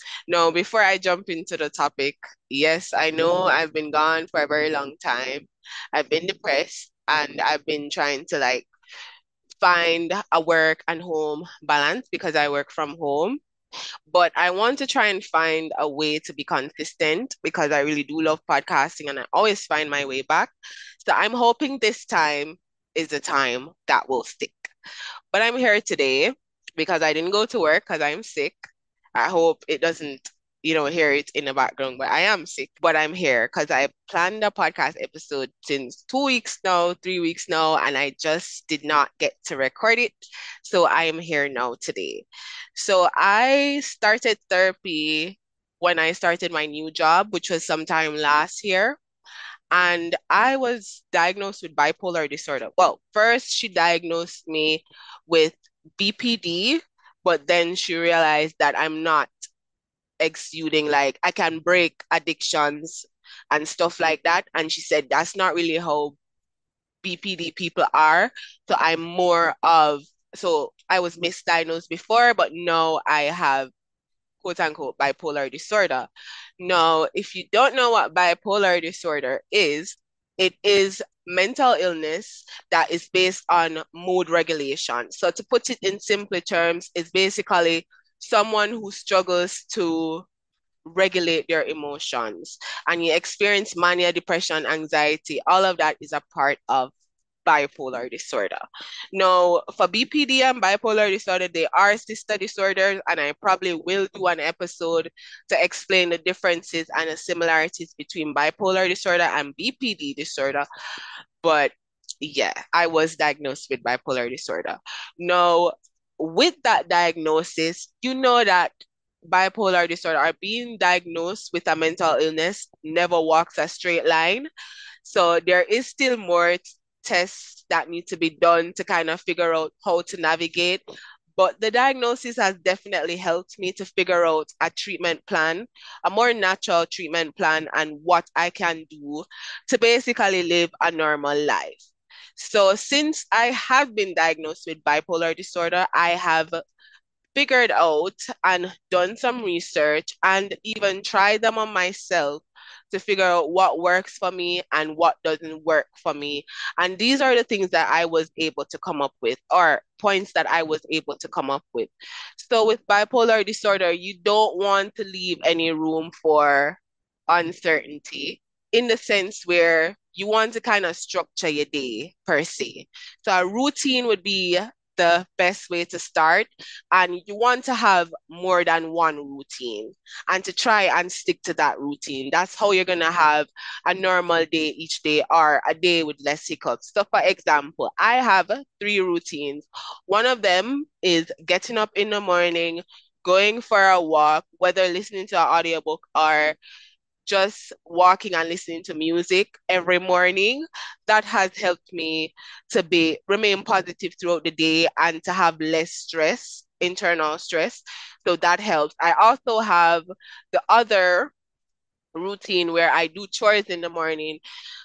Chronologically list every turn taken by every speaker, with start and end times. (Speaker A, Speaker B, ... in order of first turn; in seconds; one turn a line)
Speaker A: 0.3-8.7
Speaker A: 9.6-13.4
Speaker A: 14.1-20.5
Speaker A: 21.0-24.7
Speaker A: 25.3-28.6
Speaker A: 29.1-49.0
Speaker A: 49.7-59.3
Speaker A: 60.2-66.2
Speaker A: 67.0-73.7
Speaker A: 74.4-76.1
Speaker A: 76.6-90.2
Speaker A: 90.8-96.9
Speaker A: 97.5-98.6
Speaker A: 99.1-110.7
Speaker A: 111.4-118.7
Speaker A: 119.3-124.5
Speaker A: 125.0-130.8
Speaker A: 131.4-146.6
Speaker A: 147.3-196.6
Speaker A: 197.2-211.3
Speaker A: 212.1-214.4